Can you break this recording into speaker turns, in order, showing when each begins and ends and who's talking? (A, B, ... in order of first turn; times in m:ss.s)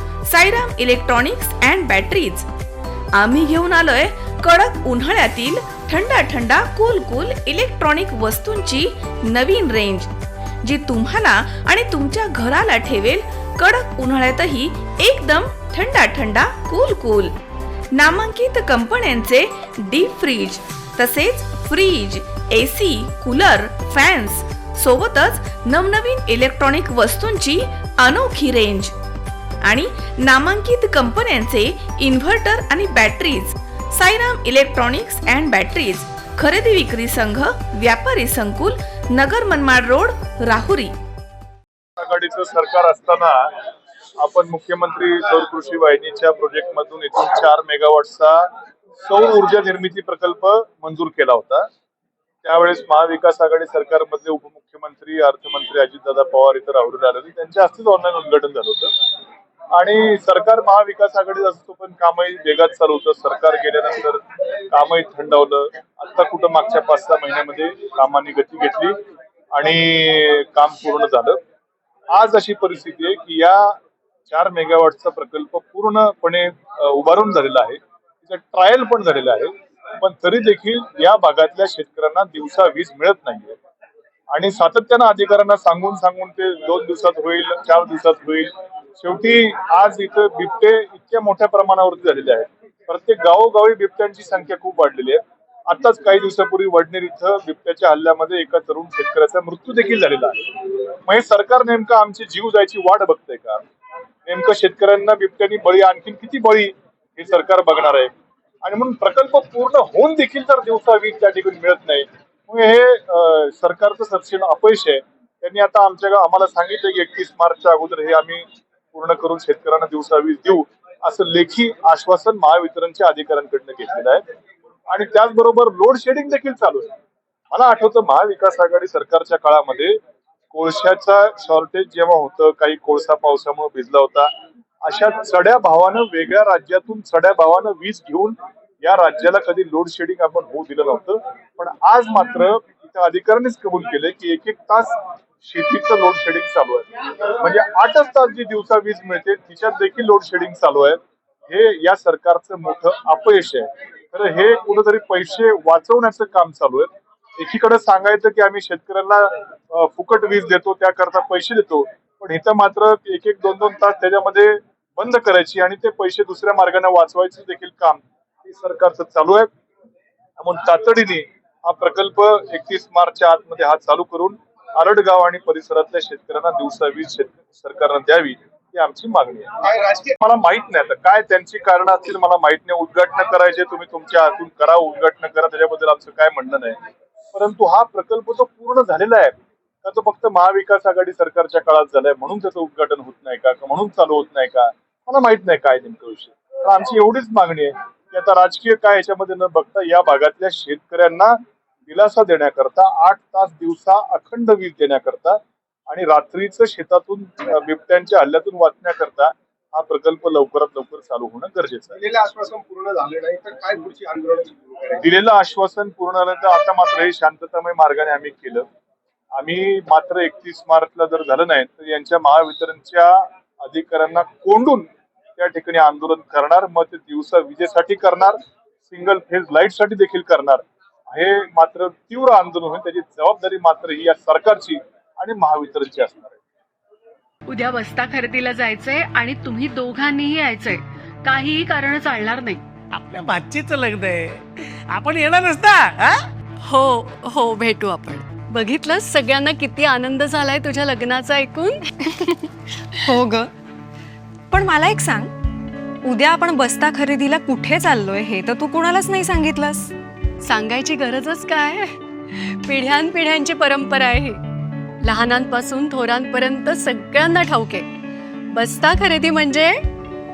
0:00.2-0:02.4 A
0:03.2-0:10.1 A
0:10.6-0:17.3 A
0:17.9-0:28.9 A
0:29.6-0:40.9 A
0:42.0-0:43.5 B
0:44.2-0:48.5 B
0:49.0-0:51.7 B
0:52.4-0:58.9 B
0:59.7-1:08.9 B
1:09.5-1:11.4 B
1:12.1-1:13.8 B
1:14.3-1:23.6 B
1:24.3-1:43.6 B
1:44.2-1:48.1 B
1:48.6-2:04.2 B
2:04.9-2:06.9 B
2:07.5-2:10.0 B
2:10.5-2:14.3 B
2:14.8-2:49.5 B
2:50.4-3:06.8 B
2:59.8-3:00.0 C
3:07.3-3:32.0 B
3:32.0-3:35.0 C
3:35.0-3:38.6 B
3:39.3-3:56.4 B
3:57.5-4:02.6 D
4:02.9-4:06.2 E
4:06.7-4:12.5 F
4:13.0-4:13.5 G
4:14.5-4:15.3 G
4:16.0-4:19.9 G
4:20.4-4:24.4 F
4:25.0-4:27.9 F
4:28.5-4:29.8 F